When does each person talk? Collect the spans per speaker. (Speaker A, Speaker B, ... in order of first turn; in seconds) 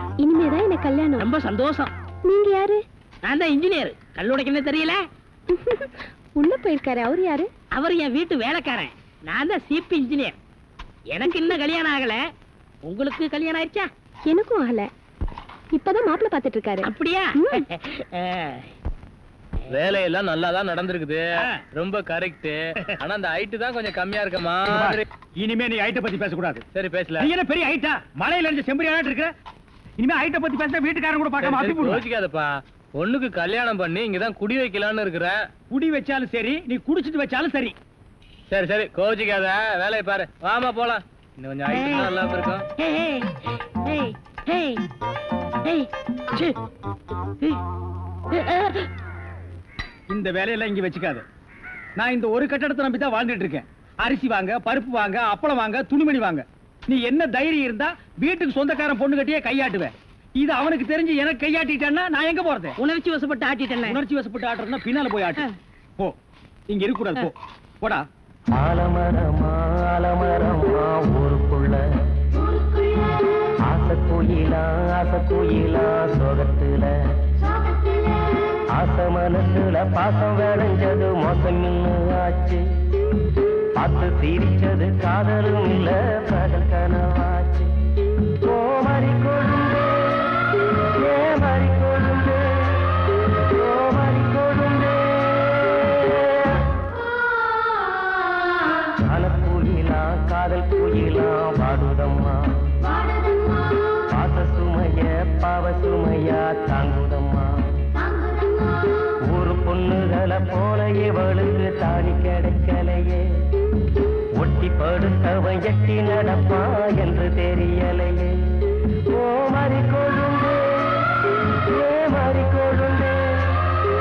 Speaker A: 0.2-1.2, 2.2-2.8, 5.5-7.5, 14.3-14.9, 15.7-17.6
Speaker B: 1.1-1.9, 3.2-5.0, 7.7-10.4, 11.1-12.2, 12.8-13.9, 16.8-18.6, 41.7-42.1, 42.8-43.3, 43.9-44.8, 45.6-46.5, 48.3-48.8, 62.8-64.0
Speaker C: 19.7-21.2, 21.8-25.0, 26.8-27.3, 31.4-35.4, 38.5-42.6
Speaker D: 24.7-26.6, 27.2-29.3, 30.0-32.0, 35.7-37.8, 50.1-51.2, 52.0-62.8, 63.9-65.4, 66.7-68.0
Speaker E: 68.6-71.8, 73.7-76.9, 78.8-82.6, 83.8-87.7, 88.4-90.4, 91.0-92.9, 93.5-96.6, 99.0-102.6, 104.1-107.8, 109.3-113.2, 114.4-118.3, 119.1-121.1, 121.7-123.6